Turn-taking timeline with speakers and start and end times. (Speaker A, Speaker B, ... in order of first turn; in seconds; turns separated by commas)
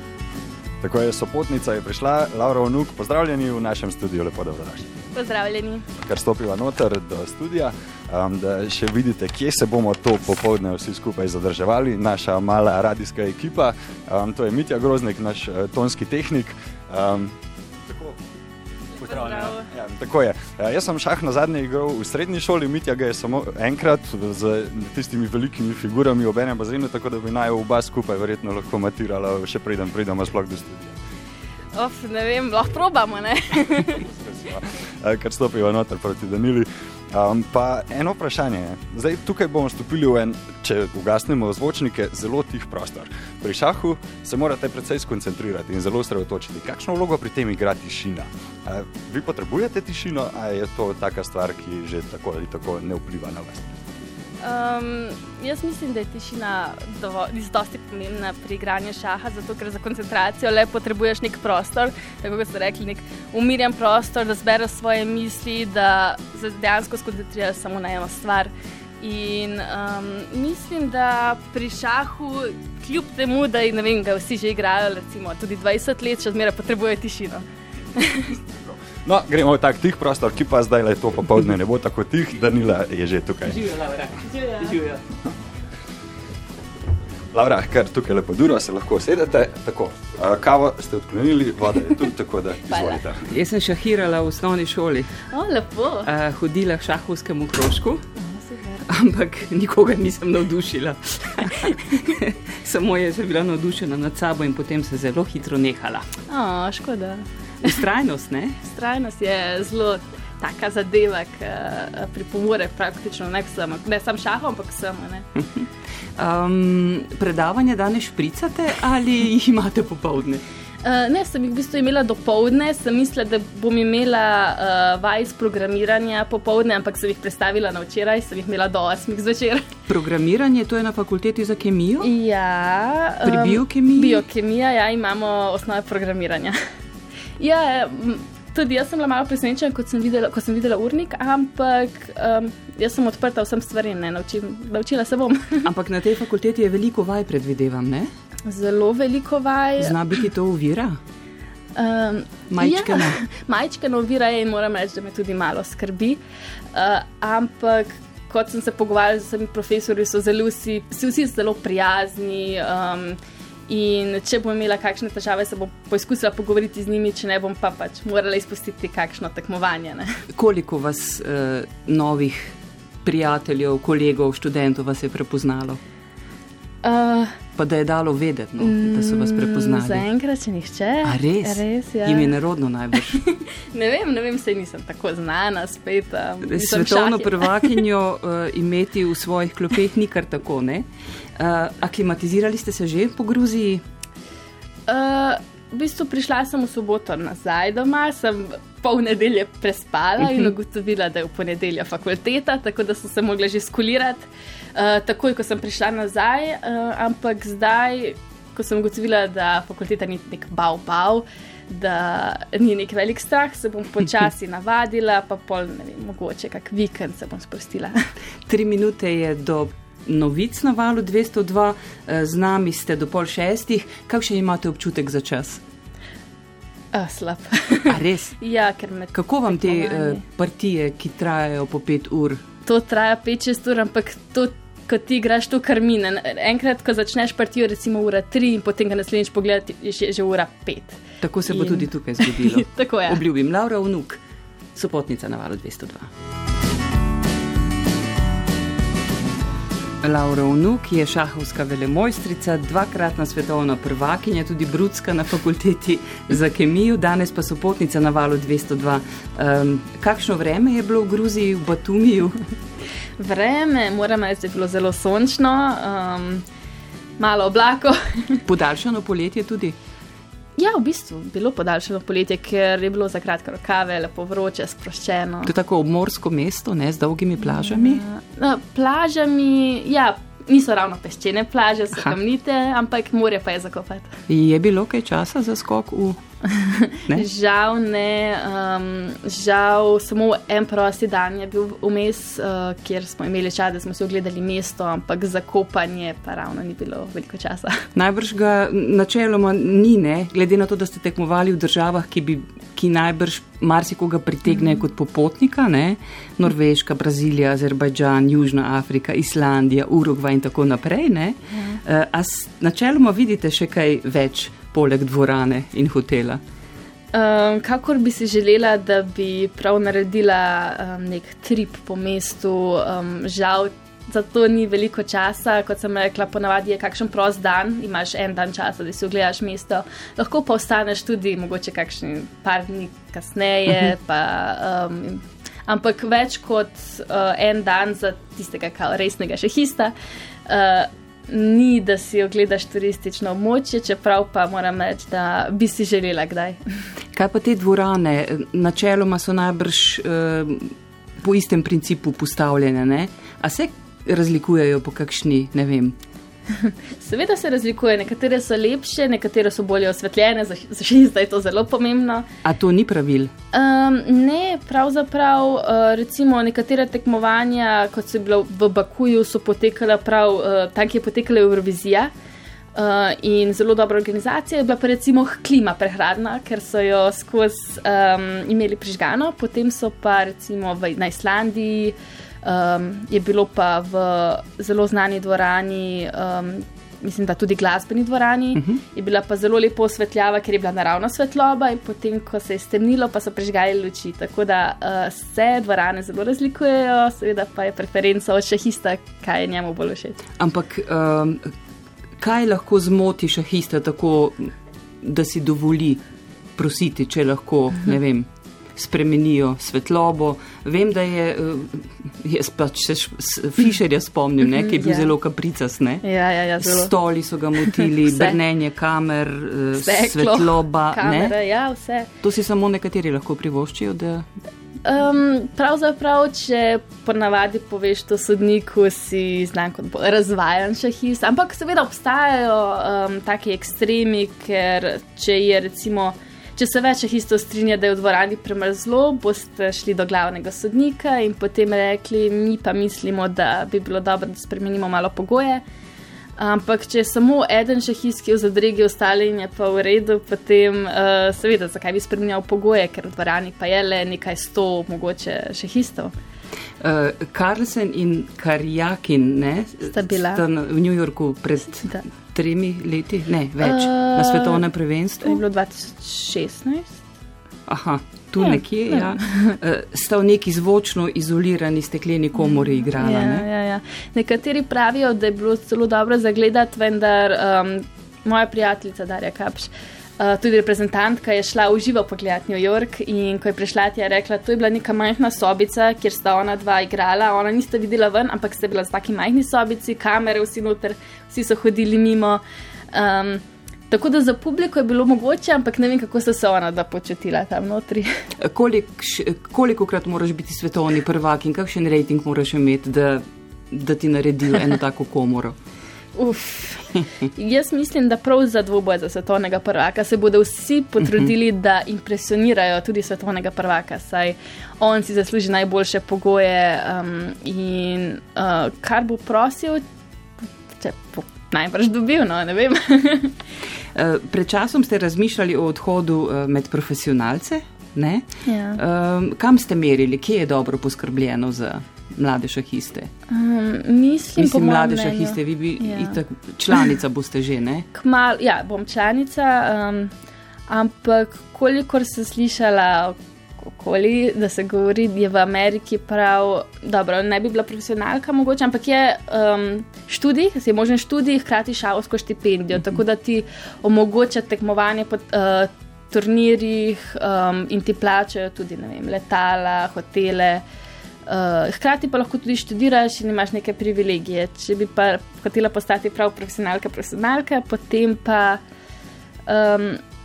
Speaker A: 0.8-4.9, Speaker B: 5.1-5.9, Speaker A: 6.0-18.2, Speaker A: 19.0-31.0, Speaker B: 19.0-19.7, Speaker B: 31.8-34.1, Speaker A: 34.0-53.7, Speaker B: 54.4-77.4, Speaker B: 78.0-78.4, Speaker A: 79.0-83.8, Speaker C: 83.7-85.0, Speaker B: 84.3-84.7, Speaker A: 87.3-93.3, Speaker B: 92.7-93.0, Speaker C: 93.2-95.2, Speaker B: 95.3-96.1, Speaker C: 96.1-98.0, Speaker B: 98.2-98.8, Speaker C: 98.9-106.1, Speaker B: 106.3-107.8, Speaker C: 107.6-108.6, Speaker B: 108.6-115.3, Speaker C: 116.2-120.4, Speaker B: 120.8-129.7, Speaker C: 129.9-132.1, Speaker B: 132.0-136.6, Speaker C: 133.2-134.2, Speaker B: 137.4-145.7, Speaker C: 145.7-148.1, Speaker B: 148.5-149.9, Speaker C: 149.8-151.0, Speaker B: 151.8-156.2, Speaker C: 152.5-153.2, Speaker B: 156.7-170.2, Speaker C: 170.3-175.8, Speaker B: 176.8-177.4, Speaker C: 177.6-180.1, Speaker B: 178.6-182.3, Speaker C: 181.0-183.2, Speaker B: 183.1-187.8, Speaker C: 186.4-190.9, Speaker C: 191.4-193.8, Speaker B: 194.9-218.1, Speaker C: 218.5-225.6, Speaker B: 226.9-230.2, Speaker C: 227.9-228.4, Speaker C: 229.1-232.4, Speaker B: 232.7-243.2, Speaker C: 241.2-244.2, Speaker C: 244.8-246.1, Speaker C: 250.0-262.4, Speaker B: 263.2-266.4, Speaker B: 267.2-268.4, Speaker C: 268.5-269.8, Speaker B: 270.6-275.5, Speaker C: 275.5-278.0, Speaker B: 277.5-284.2, Speaker C: 284.3-286.2, Speaker B: 286.4-297.9, Speaker C: 297.9-316.4, Speaker B: 317.1-339.9, Speaker B: 340.5-346.6, Speaker C: 347.1-356.0, Speaker B: 356.5-362.3, Speaker C: 362.4-363.3, Speaker B: 363.5-372.1, Speaker B: 372.8-400.2, Speaker C: 400.4-401.5, Speaker C: 402.2-406.0, Speaker C: 406.6-416.1, Speaker B: 414.6-415.1, Speaker B: 416.0-416.9, Speaker C: 416.6-421.4, Speaker B: 417.6-418.4, Speaker B: 419.8-422.1, Speaker C: 422.2-424.3, Speaker B: 424.8-445.6, Speaker B: 446.4-456.1, Speaker C: 456.8-465.4, Speaker B: 459.8-460.4, Speaker B: 463.6-464.7, Speaker B: 465.2-467.0, Speaker C: 467.7-473.5, Speaker B: 468.4-469.6, Speaker B: 472.9-492.4, Speaker B: 492.9-498.2, Speaker C: 498.4-505.6, Speaker B: 506.2-519.8, Speaker B: 520.8-523.4, Speaker C: 524.0-533.1, Speaker B: 528.5-528.8, Speaker B: 533.3-536.2, Speaker C: 534.4-537.9, Speaker B: 537.9-540.1, Speaker B: 540.7-560.6, Speaker B: 561.3-568.6, Speaker B: 569.5-570.0